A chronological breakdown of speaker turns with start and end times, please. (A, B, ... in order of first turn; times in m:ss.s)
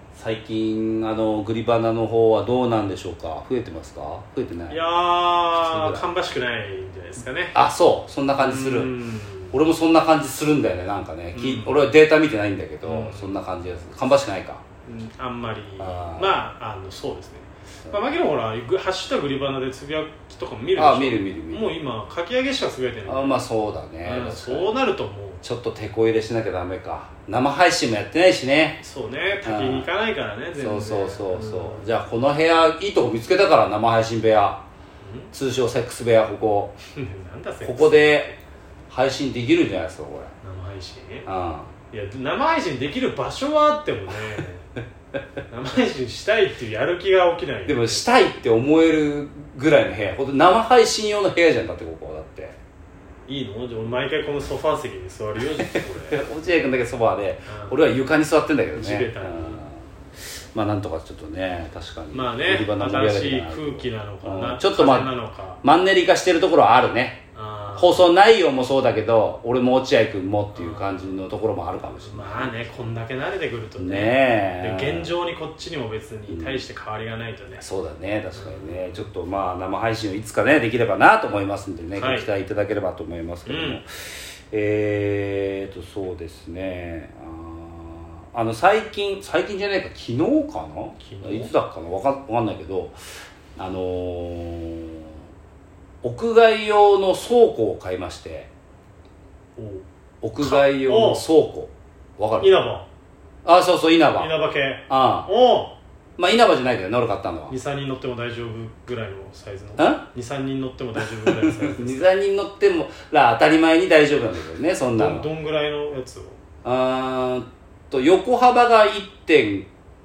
0:00.1-0:04.8 A
0:04.7-0:07.6 B
0:05.5-0:06.1 A
0:07.6-0:09.0 A
0:08.4-0:09.6 B
0:09.5-0:14.6 A
0:11.3-0:11.8 B
0:12.8-0:13.4 B
0:14.8-0:23.4 B
0:15.8-0:16.4 A
0:20.8-0:21.8 A
0:23.1-0:24.8 A
0:24.0-0:25.4 B
0:25.4-0:28.8 A
0:28.8-0:31.9 B
0:29.4-0:29.9 A
0:30.6-0:34.6 A
0:35.0-0:35.3 B
0:35.3-0:36.8 A
0:36.9-0:38.4 B
0:37.6-0:38.3 A
0:38.9-0:40.3 A
0:40.4-0:41.3 B
0:41.3-0:41.7 A
0:41.9-0:44.7 B
0:45.5-0:48.0 B
0:47.7-0:52.6 A
0:53.3-0:56.2 B
0:55.6-0:59.8 A
0:57.5-0:57.8 B
0:58.8-0:59.6 B
1:00.5-1:07.2 A
1:02.1-1:05.6 B
1:07.3-1:08.0 B
1:07.8-1:12.5 A
1:10.6-1:11.1 B
1:12.0-1:17.6 B
1:13.8-1:15.1 A
1:16.3-1:16.6 A
1:17.6-1:33.0 A
1:18.3-1:18.8 B
1:22.0-1:22.3 B
1:23.5-1:23.8 B
1:31.0-1:31.5 B
1:33.6-1:35.2 A
1:36.0-1:38.5 A
1:39.6-1:39.8 B
1:40.2-1:42.6 A
1:40.4-1:41.2 B
1:42.4-1:42.9 B
1:43.4-1:44.3 A
1:44.2-1:45.8 B
1:44.9-1:45.3 A
1:46.2-1:47.6 A
1:47.5-1:52.1 B
1:49.8-1:50.0 A
1:51.0-1:55.3 A
1:55.0-1:56.4 B
1:56.6-1:59.7 A